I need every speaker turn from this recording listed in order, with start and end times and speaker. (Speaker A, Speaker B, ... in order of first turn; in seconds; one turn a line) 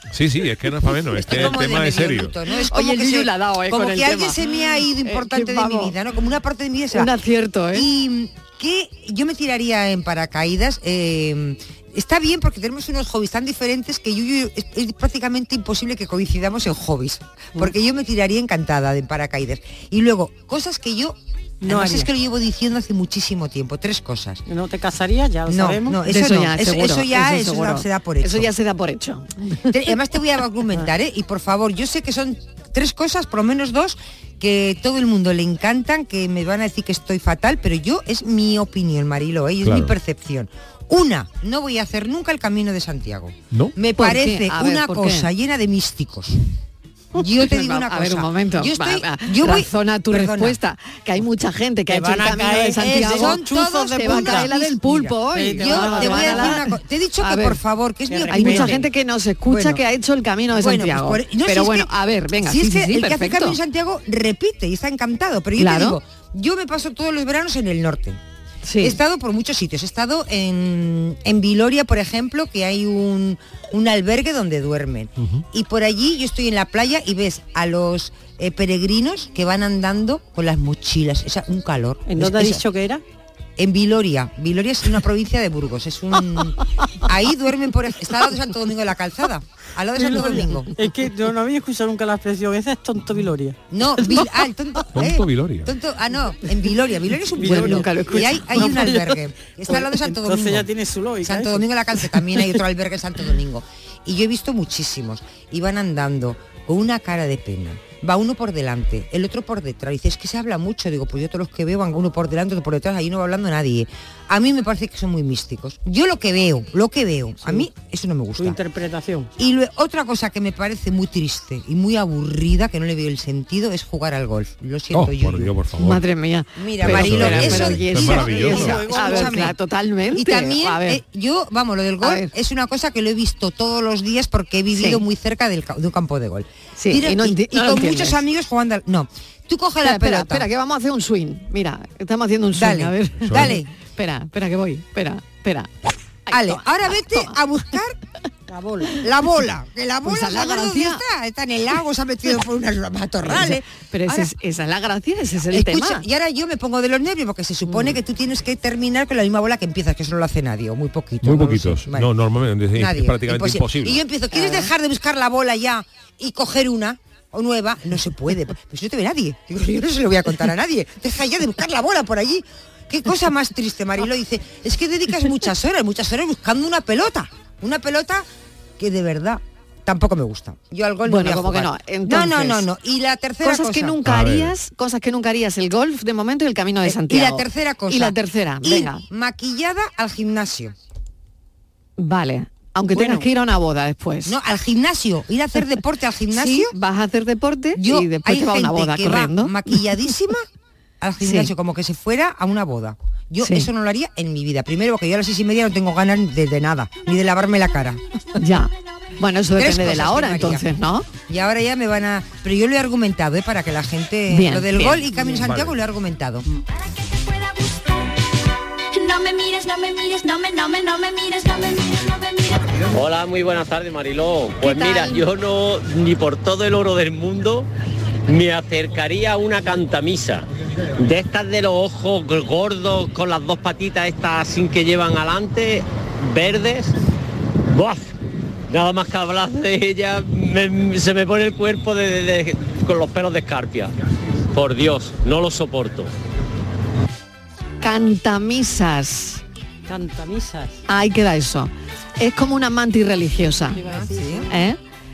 Speaker A: 0.1-2.3
Speaker B: 1.2-7.1
Speaker C: 2.7-5.9
Speaker C: 6.9-7.8
Speaker B: 7.7-24.4
Speaker D: 21.6-22.1
Speaker D: 24.5-26.0
Speaker B: 25.5-28.5
Speaker C: 26.1-29.6
Speaker B: 29.7-46.4
Speaker A: 39.6-39.9
Speaker C: 44.0-45.3
Speaker B: 47.1-50.6
Speaker C: 47.2-56.6
Speaker D: 51.9-54.5
Speaker B: 52.8-58.8
Speaker D: 55.3-56.6
Speaker C: 57.2-57.6
Speaker D: 58.1-58.9
Speaker C: 58.3-63.6
Speaker B: 59.5-59.8
Speaker B: 60.5-61.9
Speaker B: 62.4-68.2
Speaker C: 65.6-66.0
Speaker C: 68.6-69.0
Speaker B: 68.8-82.6
Speaker D: 82.1-83.0
Speaker B: 83.6-90.7
Speaker D: 90.0-94.2
Speaker B: 93.7-100.7
Speaker A: 95.0-95.7
Speaker D: 97.3-101.6
Speaker C: 97.4-98.9
Speaker B: 101.2-118.6
Speaker D: 118.4-119.3
Speaker B: 119.4-125.5
Speaker A: 124.9-126.0
Speaker C: 125.8-131.0
Speaker B: 126.5-129.5
Speaker A: 126.8-128.8
Speaker D: 128.0-129.4
Speaker B: 130.1-140.5
Speaker C: 132.0-132.3
Speaker C: 134.7-135.0
Speaker C: 136.8-138.2
Speaker C: 139.8-145.7
Speaker B: 142.5-143.7
Speaker A: 143.2-143.5
Speaker C: 146.3-147.3
Speaker B: 146.3-148.0
Speaker D: 148.5-148.8
Speaker B: 148.8-154.3
Speaker C: 150.1-151.0
Speaker C: 153.2-156.0
Speaker B: 155.5-162.1
Speaker A: 161.2-164.0
Speaker B: 162.7-178.2
Speaker C: 164.3-164.7
Speaker B: 178.8-184.0
Speaker C: 181.1-182.6
Speaker C: 183.4-189.0
Speaker A: 184.1-184.5
Speaker B: 186.8-190.7
Speaker C: 192.0-194.3
Speaker B: 194.2-196.7
Speaker C: 196.3-199.8
Speaker B: 197.8-200.4
Speaker B: 201.0-208.0
Speaker C: 201.2-201.5
Speaker C: 203.4-203.7
Speaker C: 208.4-211.1
Speaker B: 209.6-210.7
Speaker B: 211.3-216.4
Speaker C: 214.3-215.2
Speaker A: 215.4-215.7
Speaker E: 217.3-217.8
Speaker E: 218.9-222.7
Speaker F: 222.9-227.7
Speaker C: 224.6-225.2
Speaker F: 228.3-230.4
Speaker F: 231.0-236.9
Speaker F: 237.7-238.1
Speaker F: 238.7-243.9
Speaker F: 244.5-246.1
Speaker C: 247.8-249.4
Speaker D: 249.9-250.8
Speaker C: 250.9-253.8
Speaker D: 253.7-254.5
Speaker B: 253.8-254.5
Speaker C: 254.5-254.8